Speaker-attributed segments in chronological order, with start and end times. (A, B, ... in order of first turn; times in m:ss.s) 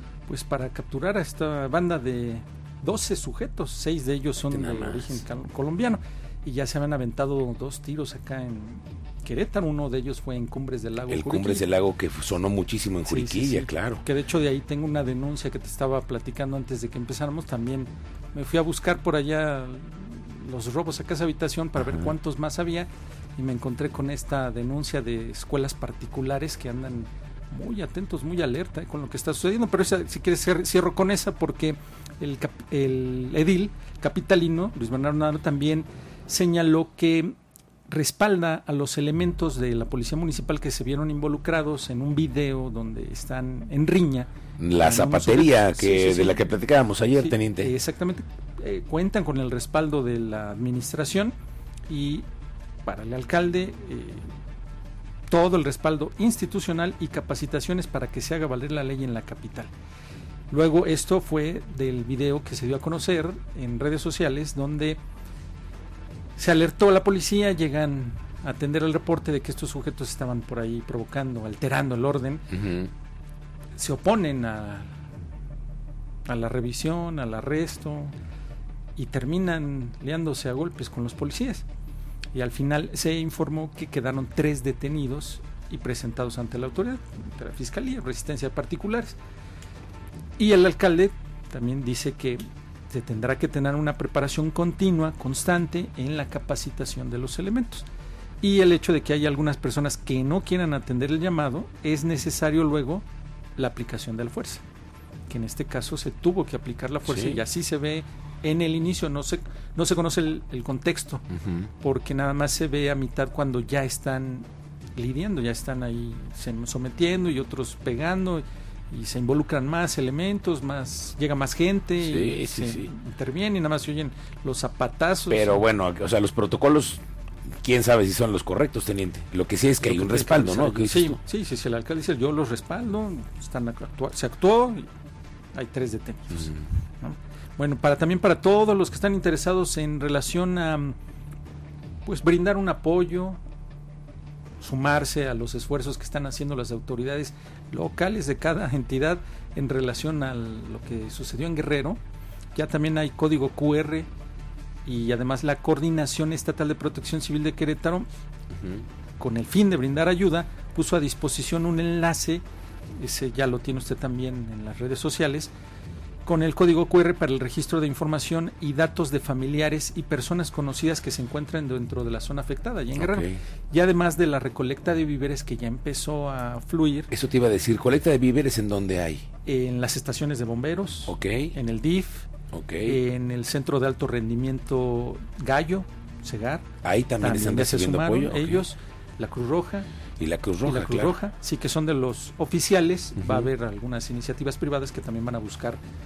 0:00.3-0:11.6 A
0:04.5-0:05.2 B
0:11.1-0:14.0 B
0:13.0-0:37.3 A
0:21.8-0:22.1 B
0:37.9-0:46.6 A
0:44.6-0:47.7 B
0:47.1-0:51.3 A
0:51.9-0:52.2 A
0:52.8-0:54.3 A
0:55.3-0:59.7 A
1:00.5-1:05.0 A
1:06.4-1:12.6 A
1:12.5-1:12.9 B
1:13.8-1:14.9 A
1:16.2-1:18.1 A
1:19.0-1:21.6 A
1:22.3-1:29.2 A
1:30.4-1:37.8 A
1:38.4-1:43.0 A
1:43.6-1:44.6 A
1:45.3-1:51.2 A
1:47.0-1:47.4 B
1:51.3-1:51.7 B
1:51.8-2:05.6 A
2:02.0-2:02.9 B
2:05.3-2:11.2 B
2:09.8-2:14.9 A
2:15.5-2:21.0 A
2:22.0-2:23.4 A
2:24.6-2:32.0 A
2:32.5-2:34.1 A
2:34.8-2:38.1 A
2:38.6-2:38.8 B
2:39.2-2:42.4 A
2:43.0-2:45.5 A
2:46.2-2:57.1 A
2:52.9-2:53.4 B
2:57.1-2:59.2 B
2:59.4-3:02.3 A
3:01.1-3:01.5 B
3:02.5-3:03.0 B
3:02.8-3:06.6 A
3:06.8-3:08.7 B
3:07.2-3:09.9 A
3:10.2-3:11.2 B
3:10.6-3:15.8 A
3:13.2-3:13.5 B